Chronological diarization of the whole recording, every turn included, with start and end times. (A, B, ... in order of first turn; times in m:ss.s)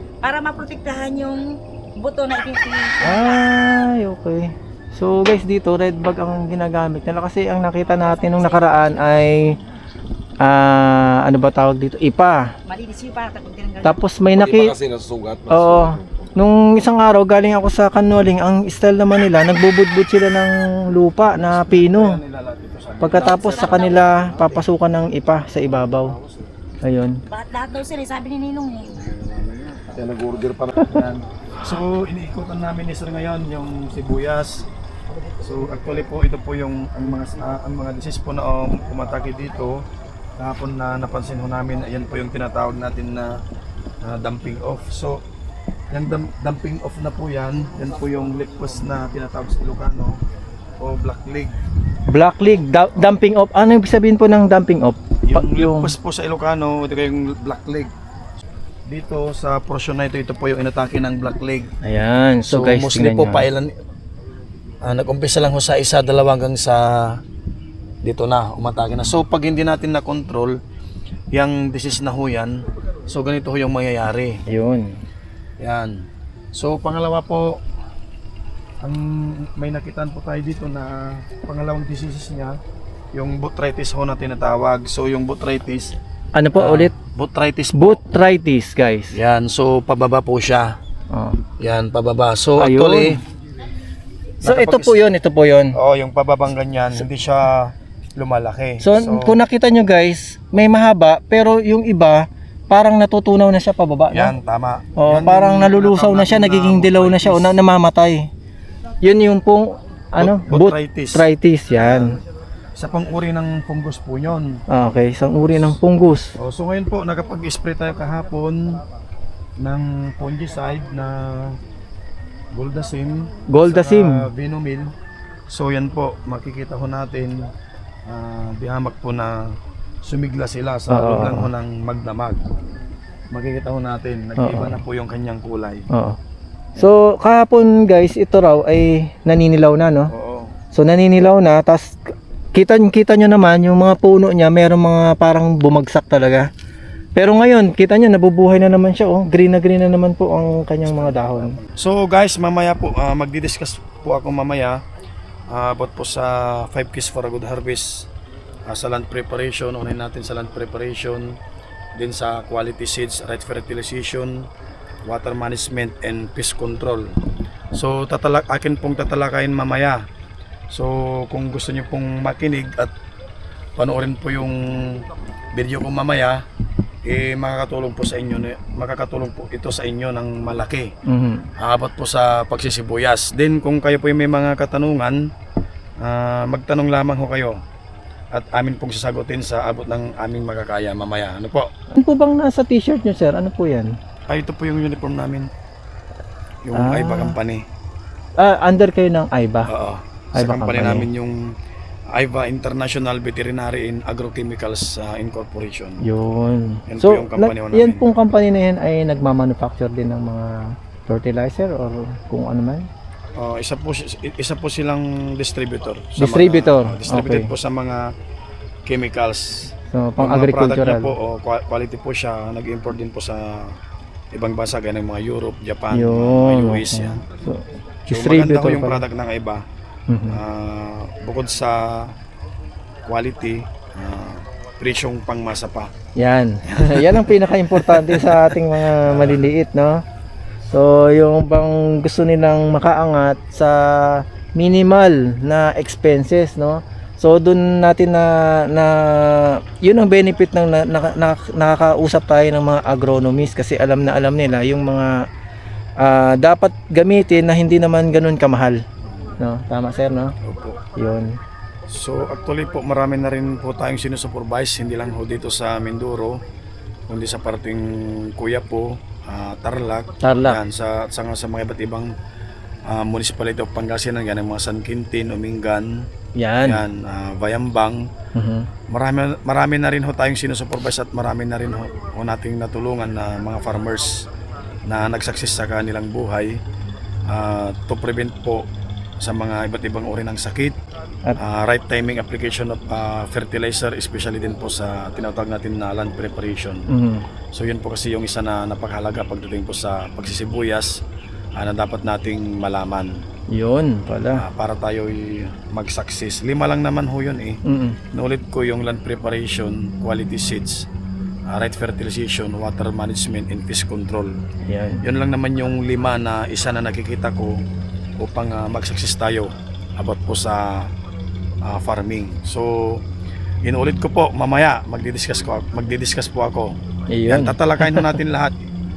0:00.2-0:03.4 A
0:03.0-0:09.6 B
0:07.9-0:09.0 A
0:10.4-0:12.5 B
0:12.7-0:14.0 A
0:13.8-0:14.8 B
0:14.3-0:16.2 C
0:15.5-0:22.2 B
0:21.3-0:24.4 D
0:23.0-0:26.2 B
0:23.1-0:24.2 A
0:26.8-0:27.2 B
0:27.3-0:29.0 A
0:29.0-0:30.0 D
0:29.9-0:30.9 C
0:30.8-0:34.7 D
0:35.4-0:39.8 D
0:40.4-0:43.4 D
0:44.0-0:45.2 D
0:45.9-0:50.2 D
0:50.8-0:51.6 D
0:52.1-0:55.9 B
0:55.3-0:57.9 D
0:58.9-1:01.7 D
1:01.8-1:03.5 B
1:02.5-1:03.8 D
1:04.8-1:07.2 D
1:08.0-1:10.6 D
1:11.3-1:14.4 D
1:14.5-1:15.0 B
1:15.6-1:17.6 D
1:18.8-1:22.6 D
1:23.1-1:26.0 D
1:26.4-1:26.9 B
1:26.6-1:28.0 D
1:27.7-1:29.2 B
1:29.1-1:30.8 D
1:31.1-1:31.4 B
1:31.6-1:33.2 D
1:32.6-1:33.2 B
1:34.4-1:35.8 B
1:34.4-1:35.0 D
1:35.7-1:39.4 D
1:38.8-1:44.3 B
1:44.1-1:47.6 D
1:45.0-1:48.3 B
1:49.0-1:52.2 B
1:50.2-1:52.2 D
1:52.8-1:54.6 D
1:54.7-1:56.4 B
1:56.4-1:58.8 D
1:59.6-2:01.6 D
2:02.5-2:04.9 D
2:03.5-2:04.3 B
2:05.5-2:07.4 D
2:08.1-2:12.5 D
2:10.9-2:11.5 B
2:13.3-2:15.9 D
2:14.4-2:14.8 B
2:15.9-2:16.2 B
2:16.8-2:20.1 B
2:20.1-2:20.5 D
2:20.7-2:22.0 B
2:22.5-2:26.5 B
2:27.2-2:31.6 B
2:30.9-2:34.8 D
2:35.5-2:38.1 D
2:38.7-2:41.4 D
2:42.0-2:44.5 D
2:45.0-2:47.1 D
2:47.7-2:50.0 D
2:50.7-2:52.9 D
2:53.8-2:56.4 D
2:57.0-3:00.9 D
3:01.1-3:01.5 B
3:01.6-3:05.2 D
3:06.0-3:07.6 D
3:08.3-3:11.7 D
3:11.9-3:13.9 B
3:14.3-3:15.5 D
3:16.6-3:17.6 D
3:16.7-3:17.4 B
3:18.4-3:19.7 B
3:19.7-3:21.4 D
3:20.4-3:21.1 B
3:22.1-3:26.0 D
3:26.0-3:32.9 B
3:26.9-3:28.1 D
3:33.4-3:38.0 D
3:36.2-3:37.5 B
3:38.9-3:43.8 D
3:39.9-3:41.1 B
3:44.3-3:47.2 D
3:45.9-3:49.0 B
3:48.1-3:49.6 D
3:50.1-3:50.4 B
3:50.3-3:52.1 D
3:53.0-3:55.9 D
3:56.2-4:00.0 B
3:56.7-3:59.5 D
4:00.7-4:15.1 B
4:16.0-4:18.8 B
4:19.4-4:20.3 B
4:20.4-4:20.8 D
4:21.0-4:21.4 B
4:21.9-4:26.4 D
4:27.1-4:32.1 D
4:30.2-4:30.6 B
4:32.9-4:36.1 D
4:36.4-4:36.9 B
4:36.6-4:38.1 D
4:38.4-4:38.7 B
4:38.9-4:44.3 D
4:44.9-4:46.6 D
4:47.3-4:48.6 D
4:49.2-4:50.8 D
4:51.4-4:56.9 D
4:56.9-4:57.3 B
4:57.5-5:00.9 D
5:01.6-5:03.2 D
5:03.5-5:04.4 B
5:04.4-5:07.6 D
5:07.7-5:08.0 B
5:08.1-5:10.9 D
5:11.5-5:14.4 D
5:14.7-5:15.0 B
5:15.0-5:17.6 D
5:18.2-5:20.9 D
5:21.6-5:23.0 D
5:23.6-5:26.8 D
5:27.1-5:28.2 B
5:27.3-5:28.7 D